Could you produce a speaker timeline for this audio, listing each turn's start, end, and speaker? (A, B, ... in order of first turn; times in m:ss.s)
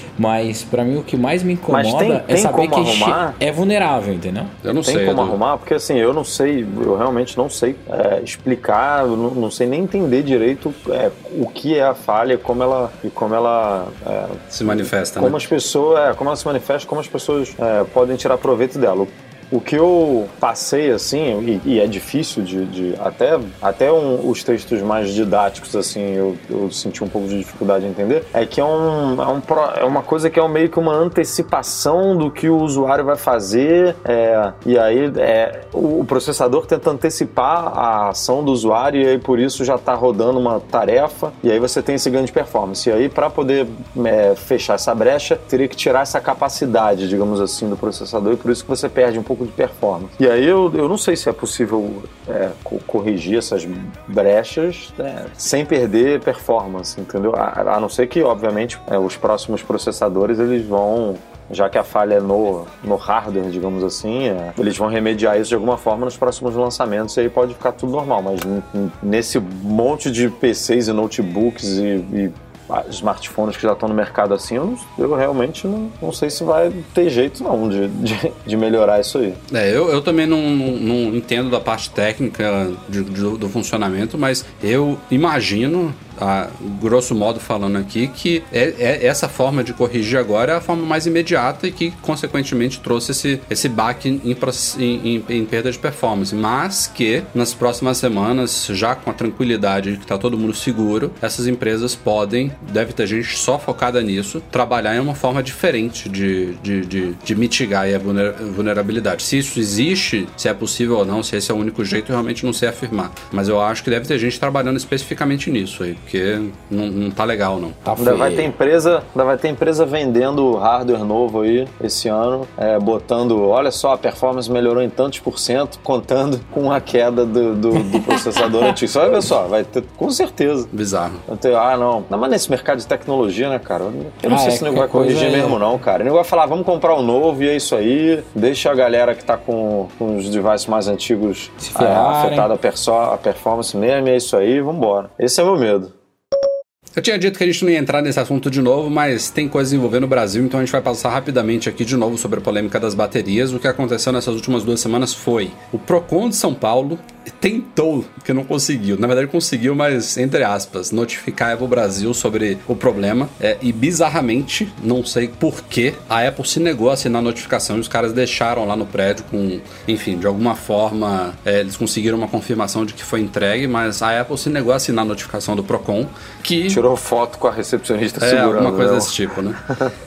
0:00.2-0:04.5 A
0:01.7-0:03.4 B
0:04.6-0:05.4 C
0:04.8-1:19.4 B
0:14.5-0:15.4 C
1:19.5-1:57.8 C
1:57.8-1:58.5 A
1:58.0-2:10.7 B
2:07.9-2:08.7 A
2:10.7-2:11.2 C
2:11.3-2:25.9 B
2:14.2-2:15.6 A
2:21.6-2:22.5 A
2:27.0-2:56.8 C
2:56.7-2:59.1 B
2:58.2-2:59.6 C